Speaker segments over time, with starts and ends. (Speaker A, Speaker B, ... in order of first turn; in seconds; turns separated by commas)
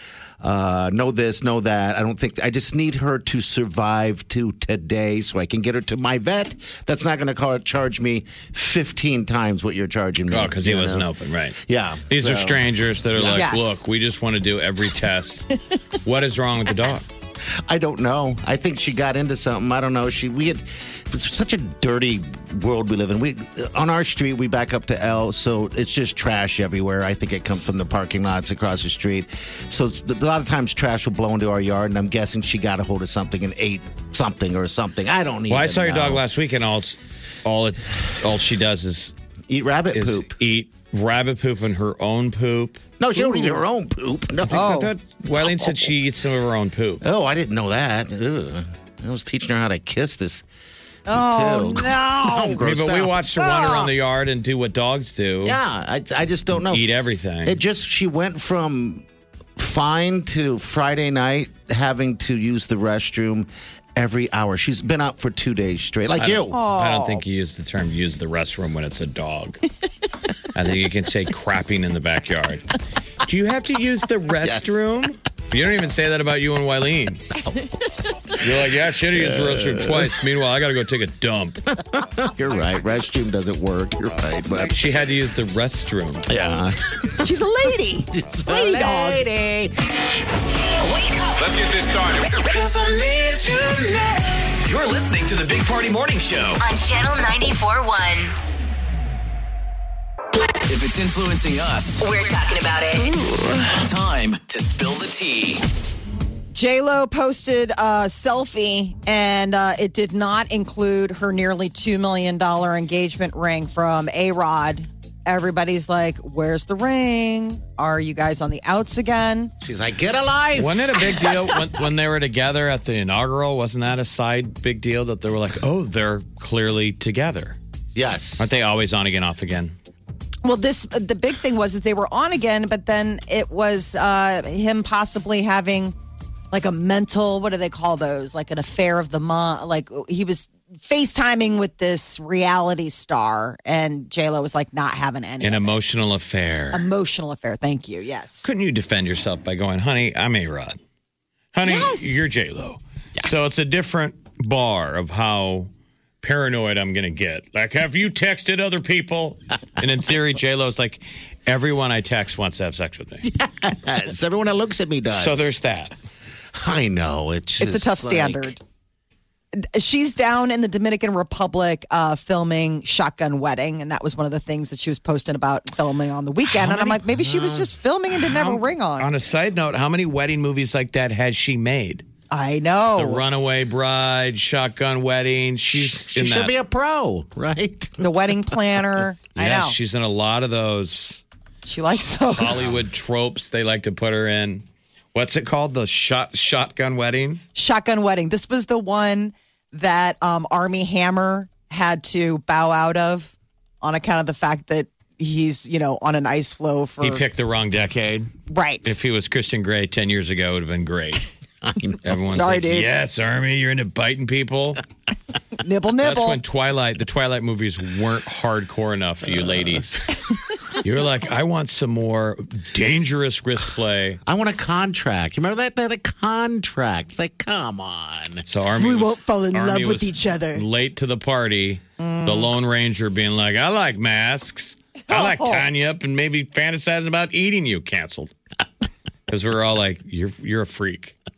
Speaker A: 0.4-11.1, Speaker B: 10.3-11.6, Speaker A: 11.6-13.5, Speaker B: 12.1-15.5, Speaker C: 13.3-13.8, Speaker B: 16.0-17.1, Speaker A: 17.5-36.2, Speaker B: 35.5-39.1, Speaker A: 39.5-40.3, Speaker B: 39.9-42.8, Speaker A: 43.0-44.7, Speaker B: 44.5-47.0, Speaker C: 44.5-44.9, Speaker A: 45.3-45.9, Speaker A: 47.0-50.4, Speaker C: 51.1-52.6, Speaker A: 51.1-53.2, Speaker B: 52.6-55.6, Speaker C: 53.4-53.9, Speaker A: 55.4-56.9, Speaker B: 56.6-57.6, Speaker A: 57.4-59.0, Speaker A: 59.6-66.6, Speaker B: 66.2-69.6, Speaker C: 66.5-67.2, Speaker B: 70.5-72.7, Speaker B: 73.2-77.3, Speaker A: 74.4-74.8, Speaker B: 78.4-81.6, Speaker A: 79.1-80.2, Speaker A: 81.7-84.9, Speaker B: 84.7-86.3, Speaker A: 86.3-87.3, Speaker C: 87.2-89.2, Speaker A: 88.1-89.7, Speaker D: 90.8-91.6, Speaker E: 91.5-93.8, Speaker E: 94.6-96.6, Speaker D: 96.6-98.3, Speaker E: 100.6-102.0, Speaker D: 102.0-103.1, Speaker E: 103.6-105.6, Speaker C: 106.5-119.5, Speaker A: 119.6-121.4, Speaker B: 120.5-127.6, Speaker A: 127.9-128.5, Speaker B: 128.4-129.7, Speaker C: 130.4-135.9, Speaker C: 136.5-145.8, Speaker B: 145.4-146.9, Speaker C: 146.7-148.5, Speaker B: 148.4-150.8, Speaker B: 151.5-155.7, Speaker C: 151.6-152.3, Speaker B: 156.2-163.2, Speaker A: 163.2-165.6, Speaker B: 165.1-165.9, Speaker A: 166.5-168.5, Speaker C: 167.6-168.6, Speaker C: 169.5-179.1, Speaker B: 176.6-176.9, Speaker A: 177.1-177.7, Speaker B: 178.1-182.0, Speaker C: 182.3-183.2, Speaker B: 183.0-186.5, Speaker A: 185.7-188.8, Speaker C: 188.0-189.7, Speaker B: 189.3-191.2, Speaker C: 191.7-192.7, Speaker B: 192.3-197.4, Speaker C: 197.5-207.2, Speaker B: 207.0-208.3, Speaker C: 208.5-209.0, Speaker B: 208.8-211.3, Speaker A: 211.6-212.0, Speaker B: 212.0-214.8, Speaker C: 212.3-212.9, Speaker C: 215.6-216.4, Speaker B: 216.0-220.1, Speaker A: 219.2-219.8, Speaker B: 220.8-224.2, Speaker A: 224.2-228.4, Speaker B: 228.5-238.3, Speaker C: 228.8-230.6, Speaker C: 232.0-232.5, Speaker C: 235.1-235.7, Speaker B: 239.3-241.1